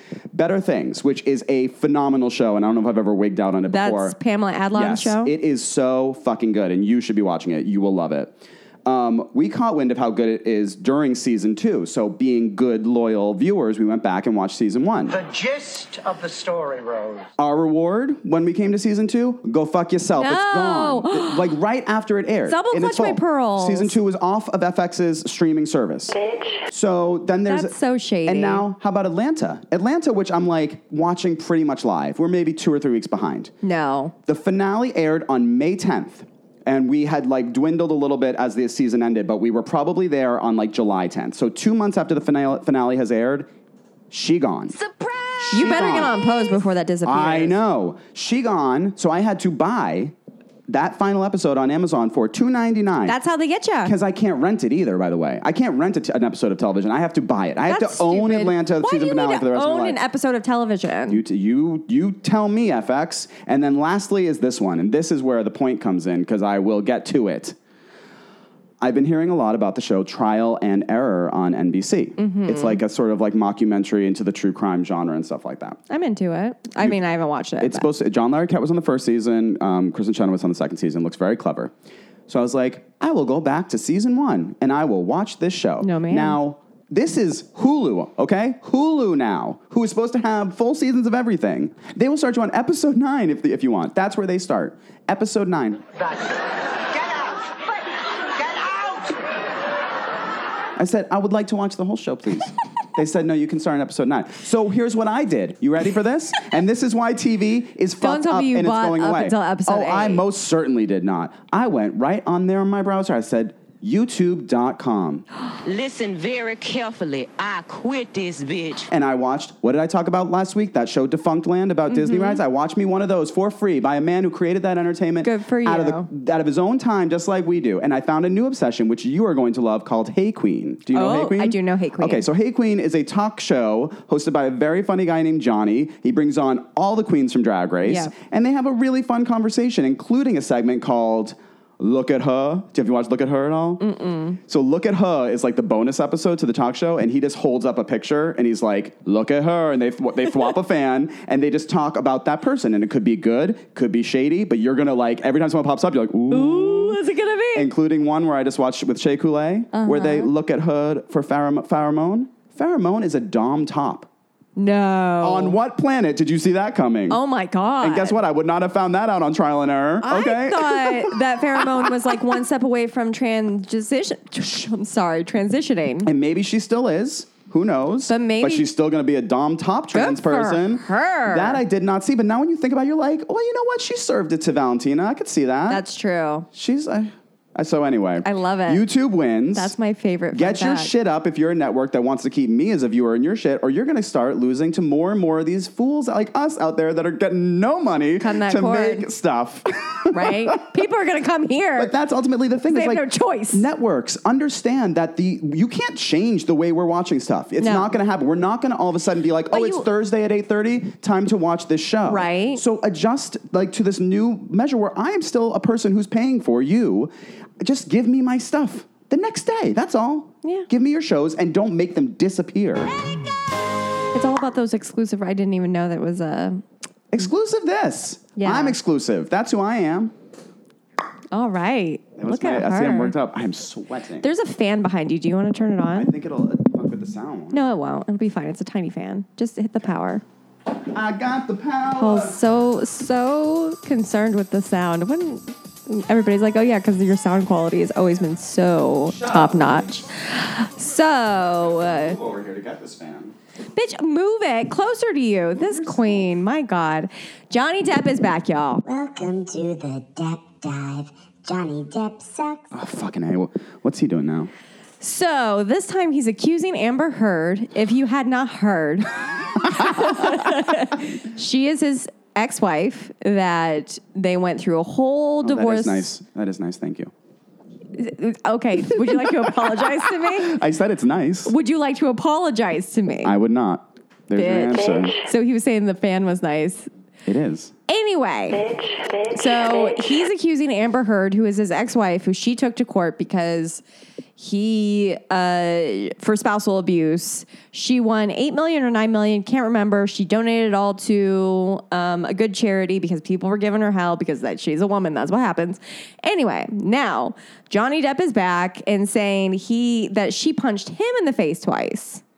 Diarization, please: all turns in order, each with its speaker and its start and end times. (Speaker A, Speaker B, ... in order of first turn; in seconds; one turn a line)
Speaker A: 0.3-4.2
Speaker B: 3.7-5.3
Speaker A: 4.7-15.2
Speaker C: 15.1-17.3
Speaker A: 17.4-27.7
Speaker B: 20.1-21.5
Speaker B: 22.4-23.9
Speaker B: 27.5-28.6
Speaker A: 28.2-33.5
Speaker B: 33.6-34.1
Speaker A: 34.3-43.5
Speaker A: 44.1-44.8
Speaker A: 45.4-46.4
Speaker B: 45.5-47.6
Speaker A: 47.0-50.1
Speaker A: 50.7-53.2
Speaker B: 53.0-53.9
Speaker A: 53.8-60.0
Speaker B: 57.7-61.2
Speaker A: 61.1-67.5
Speaker A: 68.8-75.8
Speaker B: 72.2-72.8
Speaker B: 75.9-77.9
Speaker A: 77.6-81.7
Speaker A: 82.3-95.8
Speaker B: 85.8-86.4
Speaker C: 96.0-97.8
Speaker C: 98.3-99.2
Speaker A: 100.8-115.2
Speaker B: 108.0-110.2
Speaker D: 115.6-118.9
Speaker A: 118.9-143.8
Speaker B: 121.9-122.4
Speaker B: 125.2-126.1
Speaker B: 130.9-132.2
Speaker B: 137.8-138.1
Speaker B: 143.8-144.4
Speaker A: 144.4-157.0
Speaker B: 156.3-157.7
Speaker A: 157.5-164.1
Speaker B: 159.7-160.3
Speaker B: 164.6-165.6
Speaker A: 165.2-167.2
Speaker B: 167.1-168.2
Speaker A: 167.8-172.2
Speaker B: 170.0-176.1
Speaker A: 176.0-185.8
Speaker B: 178.1-178.7
Speaker B: 179.9-181.6
Speaker B: 185.7-186.5
Speaker A: 186.5-189.7
Speaker B: 188.2-188.8
Speaker B: 189.5-190.9
Speaker A: 190.3-200.8
Speaker B: 198.2-199.1
Speaker B: 200.1-201.9
Speaker A: 201.8-222.9
Speaker B: 202.7-203.6
Speaker B: 207.6-207.9
Speaker B: 209.5-209.8
Speaker B: 212.1-212.6
Speaker B: 224.1-226.6
Speaker A: 227.1-230.1
Speaker B: 228.3-228.8
Speaker B: 231.3-233.1
Speaker A: 232.2-234.3
Speaker B: 234.2-236.1
Speaker A: 235.9-237.6
Speaker B: 237.5-240.2
Speaker A: 240.9-242.4
Speaker B: 242.0-252.2
Speaker A: 249.1-249.9
Speaker A: 251.8-253.3
Speaker B: 253.7-258.8
Speaker E: 258.9-262.7
Speaker A: 262.7-264.5
Speaker B: 265.0-276.1
Speaker A: 275.4-277.1
Speaker B: 278.0-280.6
Speaker A: 279.1-281.5
Speaker B: 281.4-283.3
Speaker A: 283.2-285.2
Speaker B: 284.3-286.9
Speaker A: 287.2-287.7
Speaker B: 287.9-293.8
Speaker B: 294.4-312.2